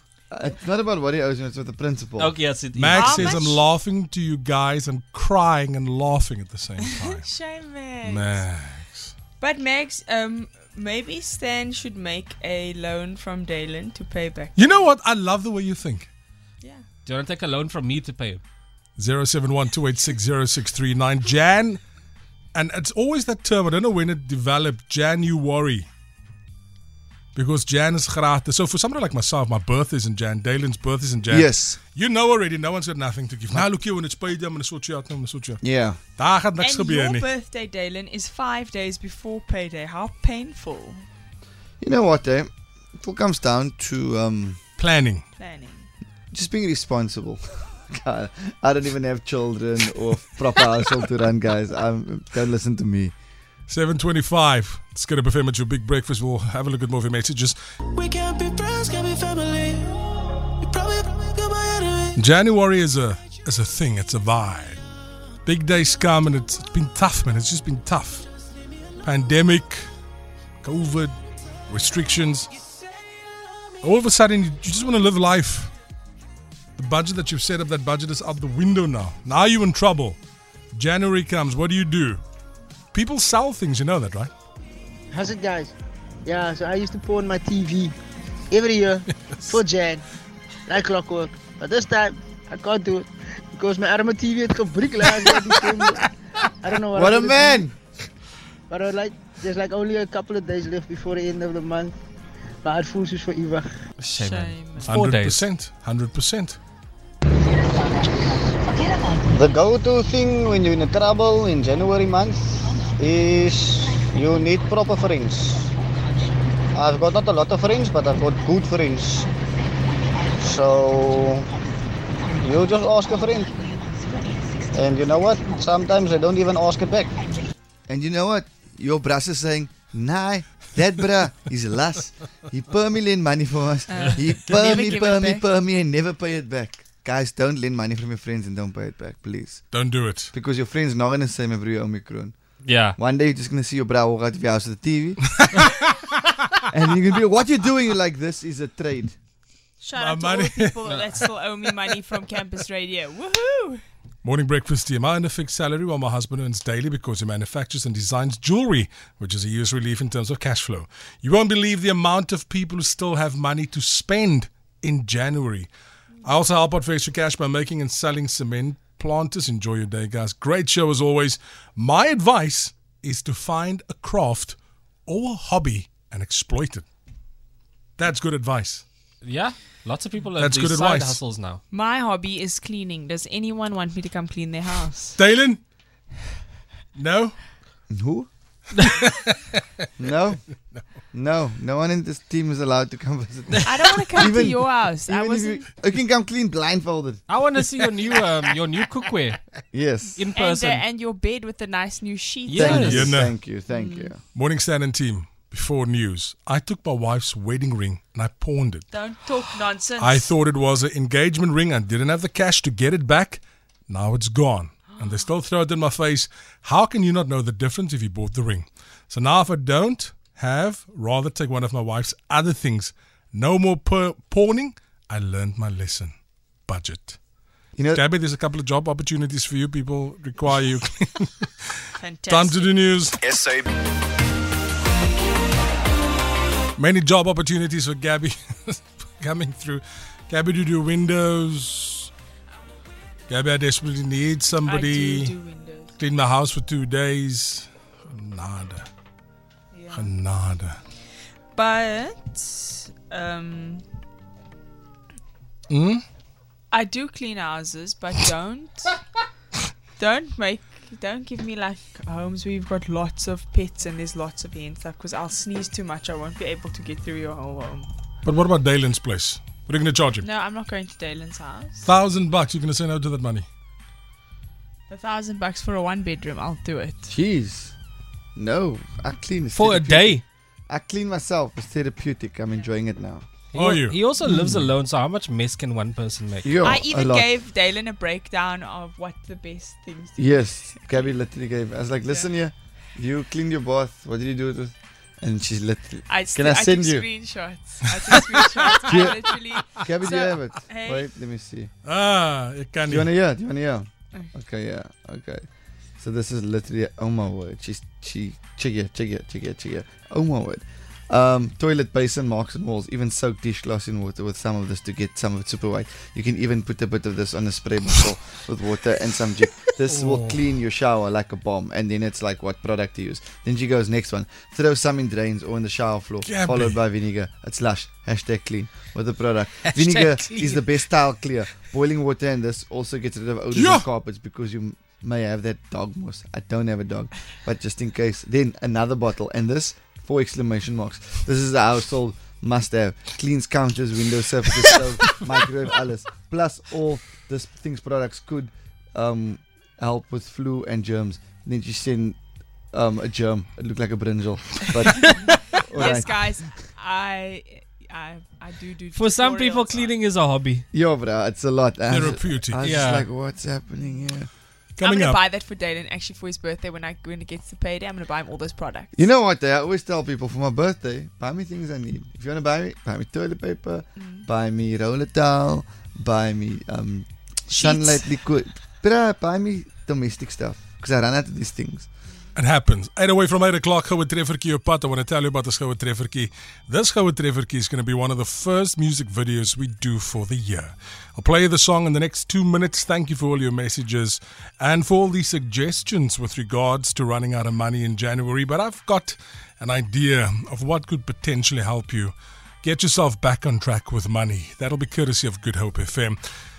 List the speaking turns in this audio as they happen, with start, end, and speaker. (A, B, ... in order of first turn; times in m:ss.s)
0:00.3-0:02.4 A
0:02.2-0:03.4 B
0:02.7-0:07.2 C
0:02.9-0:03.6 D
0:06.8-0:08.4 D
0:08.0-0:09.1 C
0:09.4-0:14.7 D
0:14.6-0:16.1 C
0:17.0-0:18.4 B
0:19.0-0:21.8 C
0:22.5-0:25.9 C
0:27.3-0:35.6 C
0:31.3-0:31.8 A
0:35.6-0:36.0 A
0:36.2-0:37.2 C
0:36.6-0:41.1 D
0:41.8-0:44.6 A
0:44.8-0:45.2 C
0:45.4-0:45.9 D
0:46.3-0:53.1 A
0:53.7-0:57.6 C
0:57.9-1:02.1 E
1:02.1-1:04.8 C
1:05.4-1:08.3 C
1:09.0-1:09.9 C
1:10.6-1:11.1 C
1:11.7-1:12.5 C
1:13.8-1:15.7 C
1:16.8-1:20.2 C
1:20.7-1:22.2 C
1:22.9-1:24.3 C
1:25.1-1:25.7 F
1:26.2-1:28.0 F
1:28.5-1:30.0 F
1:30.7-1:36.1 F
1:36.6-1:37.7 F
1:36.9-1:37.7 A
1:38.7-1:42.0 F
1:42.6-1:43.7 F
1:44.0-1:45.4 B
1:44.1-1:44.9 D
1:44.8-1:46.6 C
1:49.3-1:55.7 G
1:56.7-1:59.3 G
2:00.4-2:01.5 G
2:02.4-2:03.5 G
2:04.7-2:07.2 G
2:07.9-2:19.7 A
2:13.9-2:15.4 D
2:19.7-2:20.3 C
2:20.3-2:22.3 A
2:22.6-2:23.0 B
2:23.0-2:25.4 A
2:25.4-2:25.8 C
2:26.7-2:29.2 A
2:29.8-2:33.8 D
2:30.0-2:30.8 C
2:30.8-2:31.1 B
2:34.2-2:45.7 C
2:46.2-2:56.8 C
2:58.0-2:58.8 C
2:59.2-3:01.6 B
3:00.4-3:01.2 C
3:01.7-3:05.2 D
3:05.2-3:05.6 C
3:06.9-3:07.4 C
3:07.9-3:08.3 A
3:10.0-3:10.4 A
3:11.1-3:17.2 A
3:13.6-3:15.6 D
3:17.3-3:19.4 B
3:19.7-3:20.2 A
3:20.2-3:20.8 B
3:20.3-3:23.1 D
3:22.4-3:23.2 B
3:22.5-3:24.2 A
3:22.7-3:23.4 C
3:23.6-3:24.1 D
3:24.3-3:28.9 C
3:28.9-3:30.3 D
3:30.0-3:46.1 C
3:34.9-3:35.3 D
3:46.6-3:47.2 C
3:47.8-3:48.0 A
3:47.9-3:51.5 C
3:52.0-3:52.8 D
3:52.3-3:53.4 C
3:56.8-4:02.1 C
4:03.3-4:05.3 C
4:04.6-4:05.9 D
4:06.0-4:08.9 C
4:09.7-4:10.1 D
4:09.9-4:10.8 C
4:11.5-4:13.8 D
4:15.7-4:16.0 C
4:16.7-4:19.0 D
4:20.0-4:27.9 D
4:28.2-4:30.2 C
4:30.2-4:31.9 D
4:31.8-4:33.5 C
4:34.9-4:37.1 D
4:37.1-4:37.7 A
4:38.4-4:43.2 A
4:39.5-4:40.2 B
4:43.5-4:46.5 B
4:43.5-4:44.0 C
4:44.2-4:44.7 A
4:46.4-4:47.3 A
4:46.6-4:51.1 D
4:50.2-4:57.1 A
4:52.0-4:52.3 D
4:56.0-5:01.1 D
4:58.8-5:01.7 A
5:01.8-5:03.1 C
5:02.9-5:05.4 A
5:06.0-5:52.2 A
5:19.8-5:20.4 C
5:26.2-5:26.8 C
5:29.6-5:30.7 B
5:33.5-5:33.8 C
5:52.7-5:56.2 A
5:55.8-6:00.0 D
5:58.9-6:00.6 B
6:00.7-6:04.3 A
6:01.9-6:02.6 C
6:02.6-6:03.1 B
6:04.8-6:05.2 C
6:04.8-6:09.0 D
6:08.9-6:21.9 A
6:14.0-6:14.3 D
6:17.5-6:18.1 D
6:22.3-6:46.2 C